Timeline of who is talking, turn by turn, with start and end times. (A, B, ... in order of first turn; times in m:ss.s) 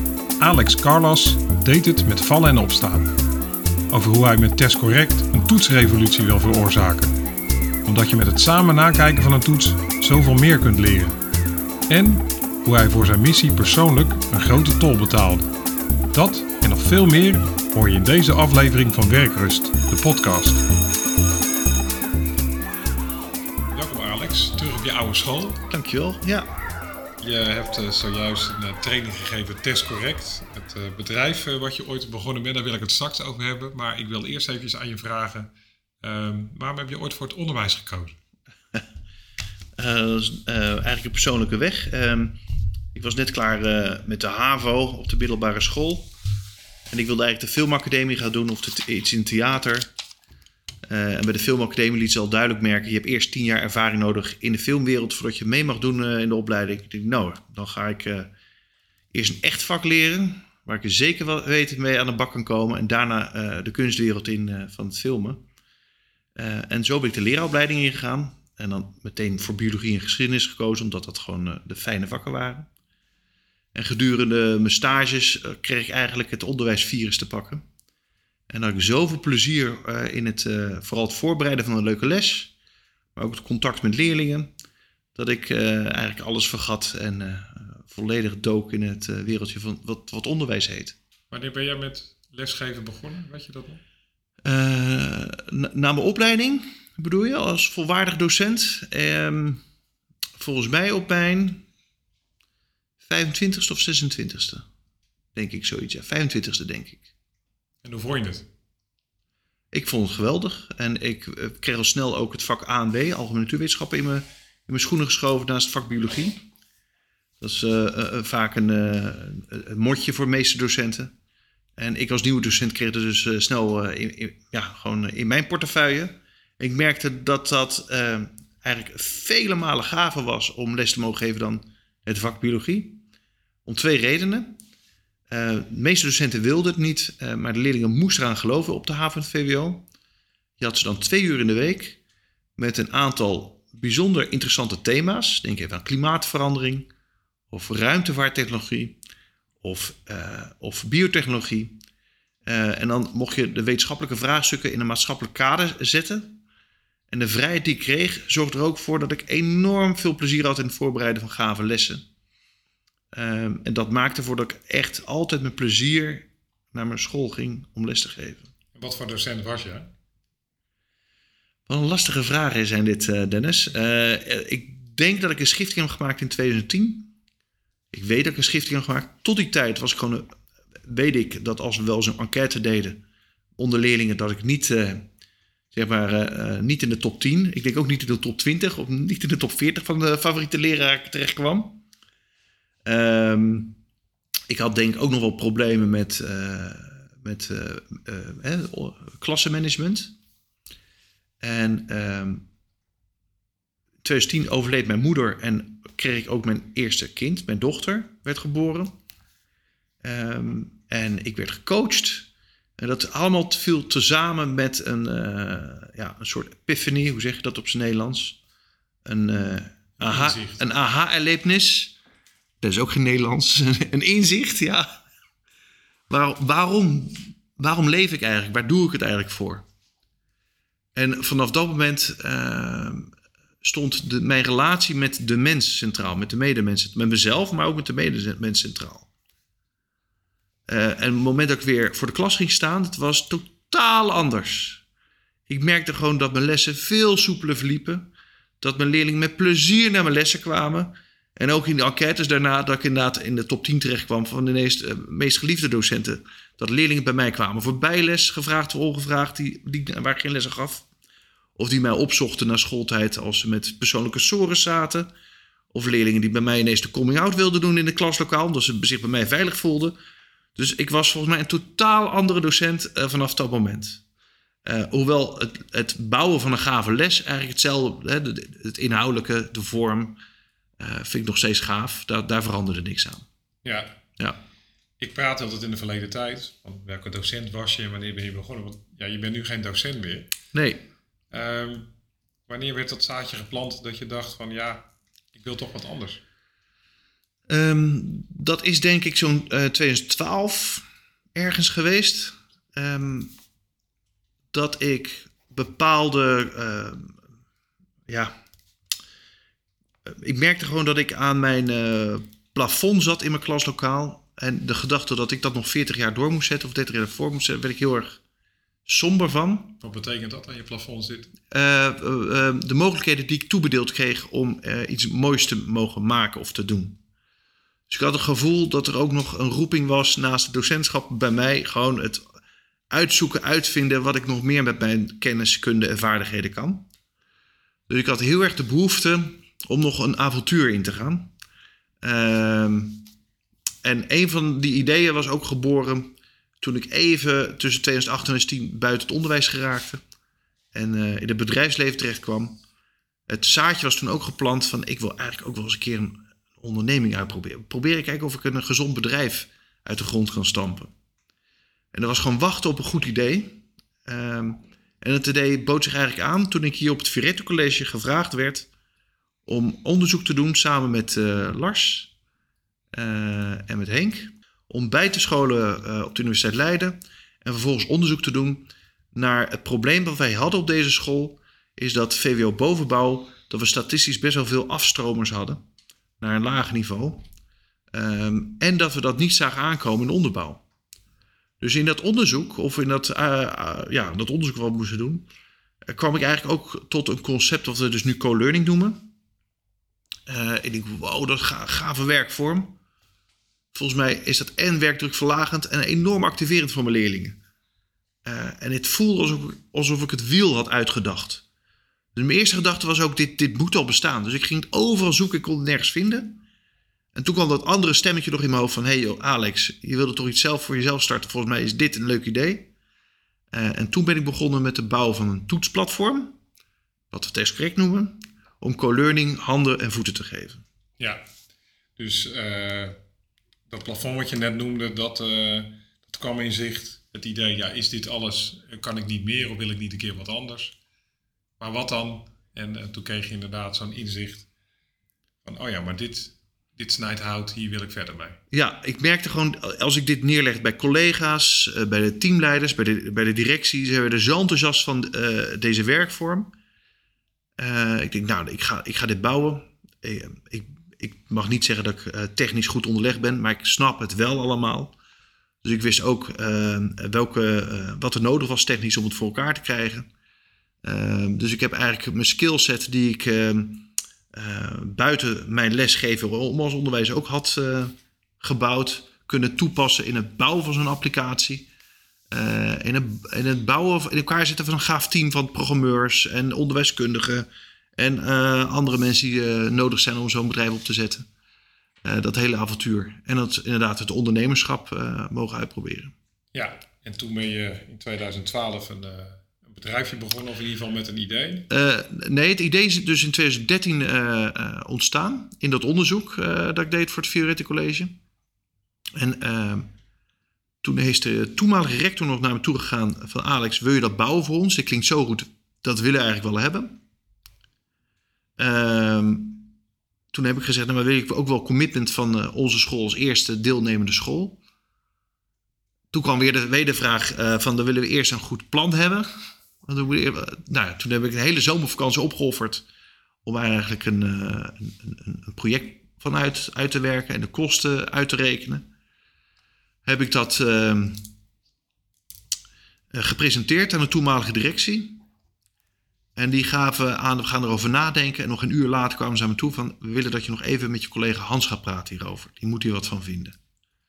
0:00.4-0:03.1 A
0:03.9-0:07.1 A
0:07.8-0:11.2 A
0:11.9-0:15.5 A
0:16.1-0:20.6 A
0:23.7-0:25.6 A
0:25.7-0:26.5 B
0:27.2-0:38.2 A
0:39.8-0:42.4 B
0:42.9-0:46.1 B
0:46.9-0:49.9 B
0:50.9-0:58.3 B
0:59.1-1:05.4 B
1:06.4-1:12.7 B
1:13.7-1:17.6 B
1:18.5-1:22.5 B
1:23.1-1:24.5 B
1:25.1-1:31.0 B
1:31.3-1:33.8 A
1:34.4-1:39.6 B
1:40.4-1:41.6 B
1:43.0-1:44.6 B
1:45.3-1:47.1 B
1:47.8-1:48.5 A
1:49.7-1:56.4 B
1:57.4-2:01.1 B
2:01.8-2:13.0 B
2:13.6-2:14.6 B
2:15.3-2:19.9 B
2:20.6-2:22.0 B
2:22.6-2:26.9 B
2:27.5-2:29.0 B
2:29.6-2:31.8 B
2:32.4-2:36.4 B
2:37.1-2:42.0 B
2:43.1-2:48.5 B
2:48.7-2:49.9 A
2:51.7-2:57.1 B
2:57.9-3:00.3 B
3:00.8-3:03.0 B
3:03.6-3:05.1 B
3:05.7-3:11.8 B
3:12.8-3:13.8 B
3:14.5-3:20.1 B
3:21.4-3:22.5 B
3:24.0-3:28.9 B
3:30.0-3:38.4 B
3:39.0-3:41.9 B
3:40.0-3:40.6 A
3:42.6-3:44.9 B
3:46.1-3:49.6 B
3:50.9-3:59.1 B
4:00.7-4:04.8 B
4:05.5-4:20.9 B
4:21.6-4:25.1 B
4:25.7-4:30.0 B
4:30.6-4:34.0 B
4:34.6-4:40.2 B
4:40.8-4:43.2 B
4:43.6-4:44.0 A
4:45.0-4:50.3 A
4:50.5-4:50.8 B
4:51.3-4:51.9 A
4:52.5-4:56.2 A
4:57.5-5:03.3 B
5:04.5-5:07.2 B
5:08.1-5:08.4 B
5:10.0-5:18.2 B
5:18.8-5:19.8 B
5:19.8-5:21.3 A
5:21.5-5:27.0 B
5:27.9-5:32.2 B
5:32.9-5:36.9 B
5:37.9-5:41.3 B
5:42.0-5:43.1 B
5:43.8-5:50.0 B
5:50.7-5:52.6 B
5:53.3-6:00.9 B
6:01.9-6:08.7 B
6:09.4-6:12.1 B
6:12.9-6:25.6 B
6:26.2-6:27.2 B
6:27.9-6:30.6 B
6:31.6-6:35.3 B
6:35.8-6:39.1 B
6:40.3-6:42.8 B
6:43.7-6:47.4 B
6:48.2-6:51.4 B
6:52.1-6:56.4 B
6:57.1-7:02.7 B
7:03.5-7:06.4 B
7:07.1-7:10.6 B
7:12.0-7:13.0 A
7:13.7-7:20.8 A
7:21.6-7:24.5 A
7:25.4-7:28.4 A
7:28.5-7:36.5 B
7:37.6-7:44.9 B
7:45.6-7:50.1 B
7:50.8-8:01.7 B
8:02.3-8:11.2 B
8:12.0-8:16.1 B
8:16.5-8:21.7 A
8:21.7-8:28.2 B
8:29.1-8:29.9 B
8:30.8-8:37.0 B
8:38.6-8:39.7 B
8:40.3-8:44.6 B
8:46.1-8:49.3 B
8:49.8-8:52.8 B
8:53.4-8:58.9 B
9:00.0-9:01.3 B
9:03.1-9:05.2 B
9:06.4-9:13.6 B